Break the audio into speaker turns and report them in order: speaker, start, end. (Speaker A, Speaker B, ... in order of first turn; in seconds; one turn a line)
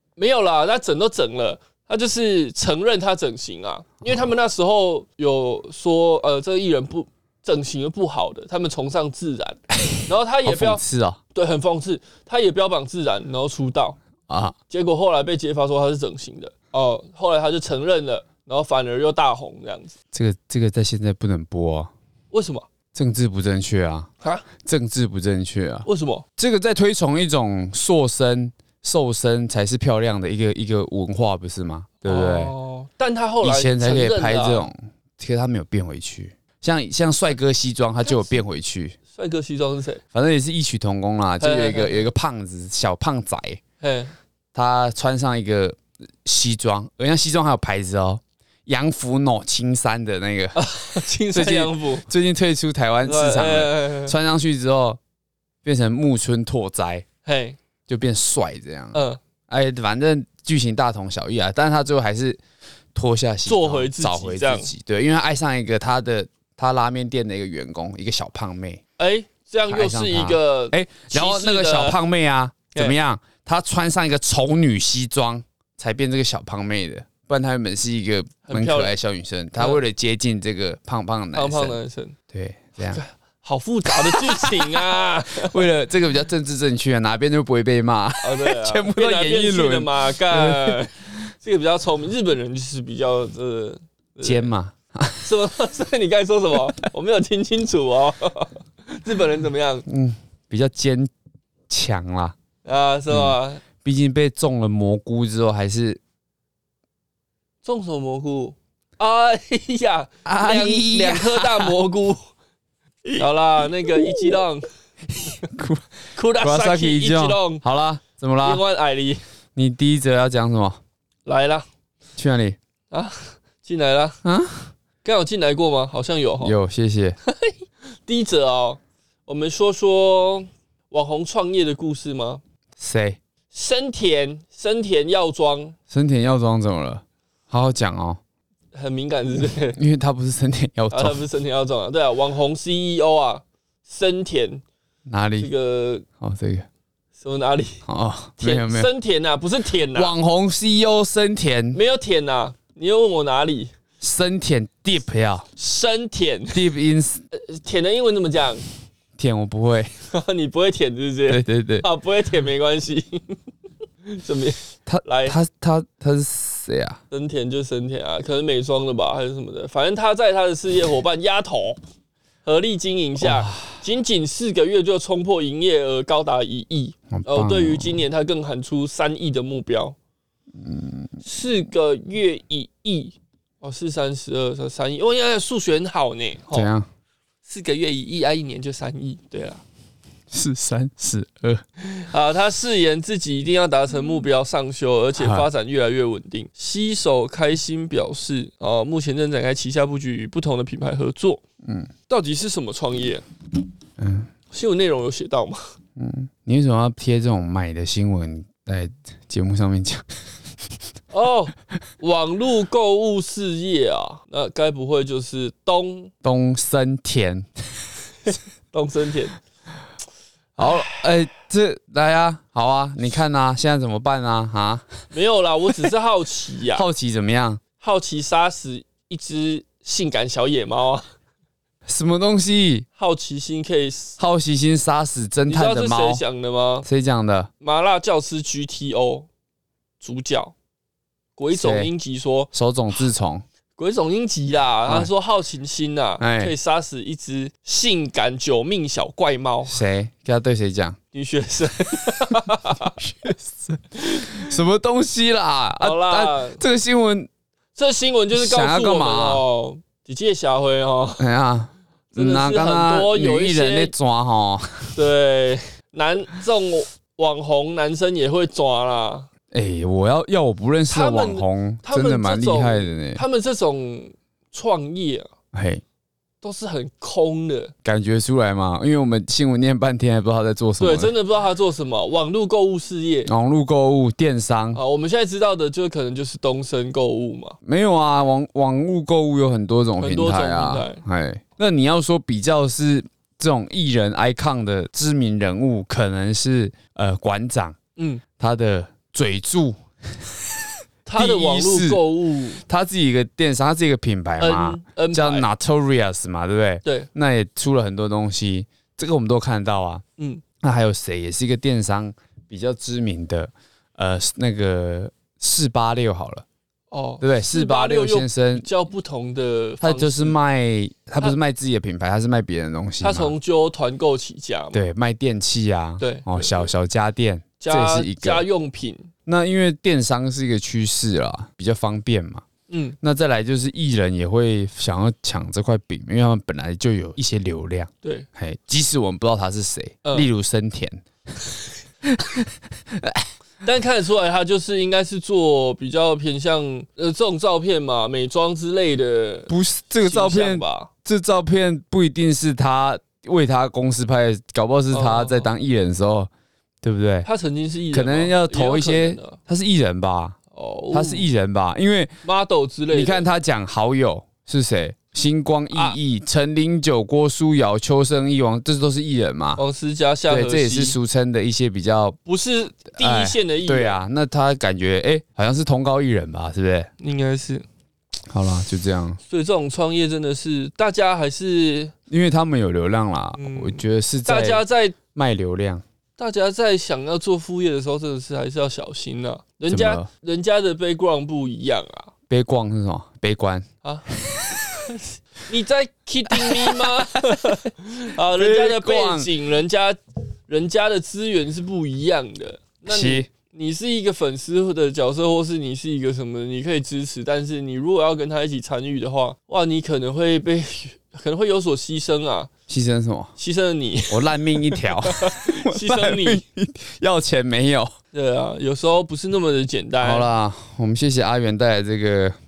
Speaker A: 0.2-10.8
Speaker B: 10.4-11.2
Speaker A: 11.3-14.0
Speaker B: 14.3-14.6
Speaker A: 14.7-19.9
Speaker B: 20.1-21.9
Speaker A: 22.3-22.6
Speaker B: 22.9-24.1
Speaker B: 24.6-25.9
Speaker A: 25.9-26.2
Speaker B: 26.4-32.5
Speaker A: 32.0-34.7
Speaker B: 33.4-39.0
Speaker A: 39.1-40.0
Speaker B: 40.1-43.6
Speaker A: 41.4-42.0
Speaker A: 43.8-44.1
Speaker B: 44.5-50.6
Speaker A: 50.5-52.1
Speaker B: 51.3-55.0
Speaker A: 53.0-54.1
Speaker B: 55.6-57.0
Speaker A: 57.2-57.6
Speaker B: 57.9-59.0
Speaker A: 58.9-59.2
Speaker B: 59.5-62.4
Speaker B: 62.9-68.8
Speaker A: 63.4-64.7
Speaker A: 69.0-72.0
Speaker B: 69.7-81.8
Speaker A: 78.5-78.9
Speaker A: 81.3-82.2
Speaker B: 82.3-83.0
Speaker A: 82.8-85.6
Speaker B: 83.9-90.8
Speaker A: 88.2-94.5
Speaker B: 94.2-95.3
Speaker A: 95.2-99.8
Speaker B: 99.8-101.1
Speaker B: 101.7-102.3
Speaker A: 102.6-103.6
Speaker B: 103.1-106.0
Speaker A: 107.6-112.2
Speaker B: 110.2-111.7
Speaker A: 113.2-114.7
Speaker B: 115.5-115.9
Speaker A: 116.1-117.6
Speaker B: 116.4-118.6
Speaker A: 118.4-119.2
Speaker B: 119.5-120.8
Speaker A: 121.2-121.7
Speaker B: 122.2-122.6
Speaker A: 122.9-124.2
Speaker B: 124.2-124.7
Speaker A: 125.0-126.6
Speaker B: 126.4-127.2
Speaker A: 127.2-132.4
Speaker B: 132.8-133.2
Speaker A: 133.5-135.8
Speaker B: 135.9-138.2
Speaker A: 138.7-139.8
Speaker B: 139.7-141.2
Speaker A: 140.9-144.6
Speaker B: 145.1-145.5
Speaker A: 145.4-146.0
Speaker B: 146.2-146.7
Speaker A: 147.2-147.8
Speaker B: 147.8-148.9
Speaker A: 148.4-150.1
Speaker B: 149.9-151.8
Speaker A: 151.7-153.7
Speaker B: 154.0-155.5
Speaker A: 155.6-156.6
Speaker B: 156.5-157.2
Speaker A: 157.3-158.6
Speaker B: 159.2-159.9
Speaker A: 160.1-163.2
Speaker B: 161.3-161.8
Speaker A: 164.1-165.3
Speaker B: 164.8-167.0
Speaker A: 167.1-171.8
Speaker A: 172.4-179.9
Speaker B: 173.2-173.7
Speaker B: 177.1-178.0
Speaker B: 180.6-181.1
Speaker A: 181.2-186.7
Speaker B: 186.5-186.9
Speaker A: 187.4-189.6
Speaker B: 190.3-191.6
Speaker A: 191.9-201.4
Speaker B: 195.1-195.5
Speaker B: 201.6-201.9
Speaker A: 202.1-203.2
Speaker B: 204.0-204.3
Speaker A: 204.5-205.6
Speaker B: 206.0-210.0
Speaker A: 211.1-216.1
Speaker B: 216.2-217.5
Speaker A: 218.7-219.4
Speaker B: 220.6-224.8
Speaker A: 225.1-226.8
Speaker B: 226.7-227.6
Speaker A: 227.8-231.0
Speaker B: 231.8-232.8
Speaker A: 232.9-234.2
Speaker B: 234.2-236.2
Speaker A: 235.5-236.8
Speaker B: 236.8-237.5
Speaker A: 237.6-239.3
Speaker A: 240.0-240.5
Speaker A: 241.4-242.5
Speaker B: 241.5-241.9
Speaker B: 242.5-243.4
Speaker A: 243.8-249.8
Speaker B: 246.2-246.5
Speaker B: 249.7-251.0
Speaker A: 251.1-253.0
Speaker B: 253.0-257.3
Speaker A: 255.8-256.6
Speaker A: 257.7-261.2
Speaker B: 258.3-259.4
Speaker B: 261.2-265.0
Speaker A: 262.1-263.9
Speaker A: 264.9-269.3
Speaker B: 269.5-273.2
Speaker A: 270.9-275.3
Speaker B: 275.5-275.8
Speaker A: 276.4-277.7
Speaker B: 277.8-281.1
Speaker A: 280.8-283.3
Speaker B: 283.3-284.8
Speaker A: 284.7-287.6
Speaker B: 287.6-297.8
Speaker A: 290.0-291.0
Speaker A: 298.0-298.2
Speaker B: 298.4-300.3
Speaker A: 301.0-302.6
Speaker B: 301.1-302.0
Speaker B: 302.6-310.0
Speaker A: 304.4-305.5
Speaker A: 310.2-310.4
Speaker B: 310.6-316.4
Speaker A: 316.9-320.4
Speaker B: 317.2-318.6
Speaker B: 319.8-323.3
Speaker A: 323.0-324.8
Speaker B: 324.7-328.4
Speaker A: 326.0-326.7
Speaker A: 327.6-329.1
Speaker B: 329.2-332.4
Speaker A: 332.7-333.0
Speaker B: 333.0-341.0
Speaker B: 342.0-343.3
Speaker A: 343.6-350.9
Speaker B: 349.5-356.3
Speaker A: 354.9-355.5
Speaker B: 356.8-357.3
Speaker A: 357.2-359.4
Speaker B: 357.9-360.4
Speaker A: 360.5-361.3
Speaker B: 360.9-362.2
Speaker A: 362.2-363.2
Speaker B: 362.9-369.6
Speaker A: 369.6-371.0
Speaker B: 370.3-372.2
Speaker A: 372.2-374.0
Speaker B: 372.9-376.9
Speaker A: 377.0-377.6
Speaker B: 378.3-379.2
Speaker A: 379.3-381.9
Speaker B: 382.1-385.8
Speaker A: 383.4-384.9
Speaker A: 386.2-392.1
Speaker B: 389.7-390.1
Speaker B: 392.3-393.7
Speaker B: 394.2-394.9
Speaker A: 394.9-412.5
Speaker B: 396.3-396.9
Speaker B: 398.3-399.3
Speaker B: 402.9-403.3
Speaker B: 412.7-413.3
Speaker A: 413.4-416.4
Speaker B: 414.1-417.9
Speaker A: 418.1-420.3
Speaker B: 420.0-422.3